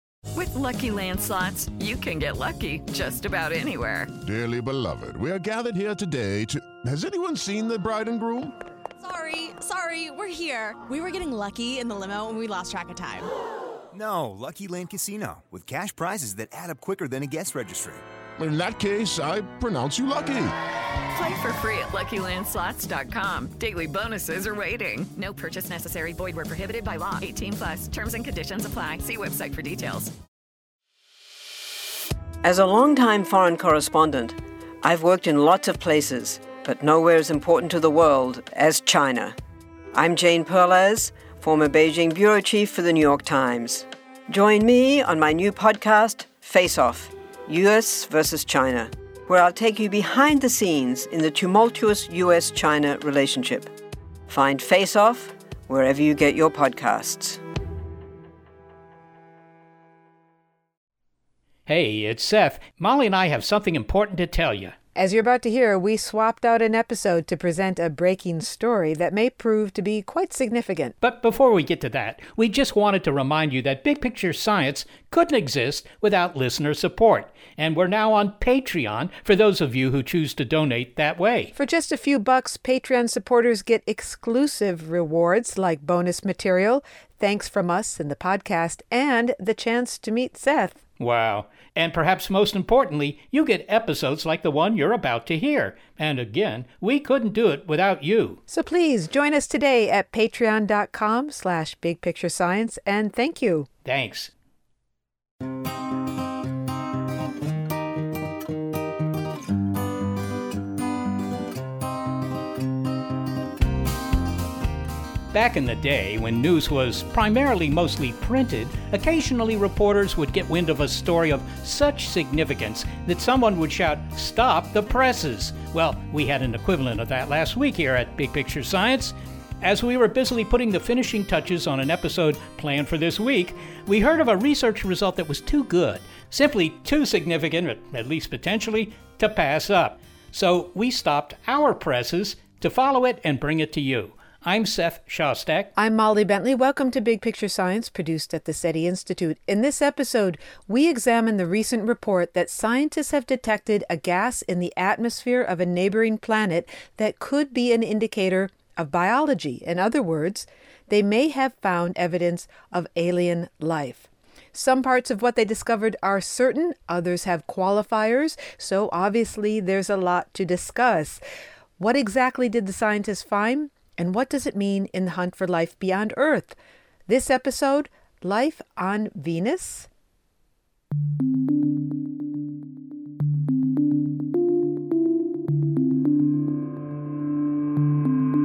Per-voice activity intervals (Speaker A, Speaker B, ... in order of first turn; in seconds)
Speaker A: 0.3-4.1, 21.1-30.1
Speaker B: 4.2-8.5, 18.4-20.5
Speaker C: 9.0-13.3
Speaker D: 13.9-18.0
Speaker E: 32.4-39.4, 39.9-53.7, 54.3-57.4
Speaker F: 61.7-64.7, 71.0-81.5, 91.0-98.4, 103.8-104.3, 115.3-145.7
Speaker G: 65.0-70.9, 81.5-90.8, 98.5-103.7, 145.8-171.2, 171.8-176.6, 177.1-179.9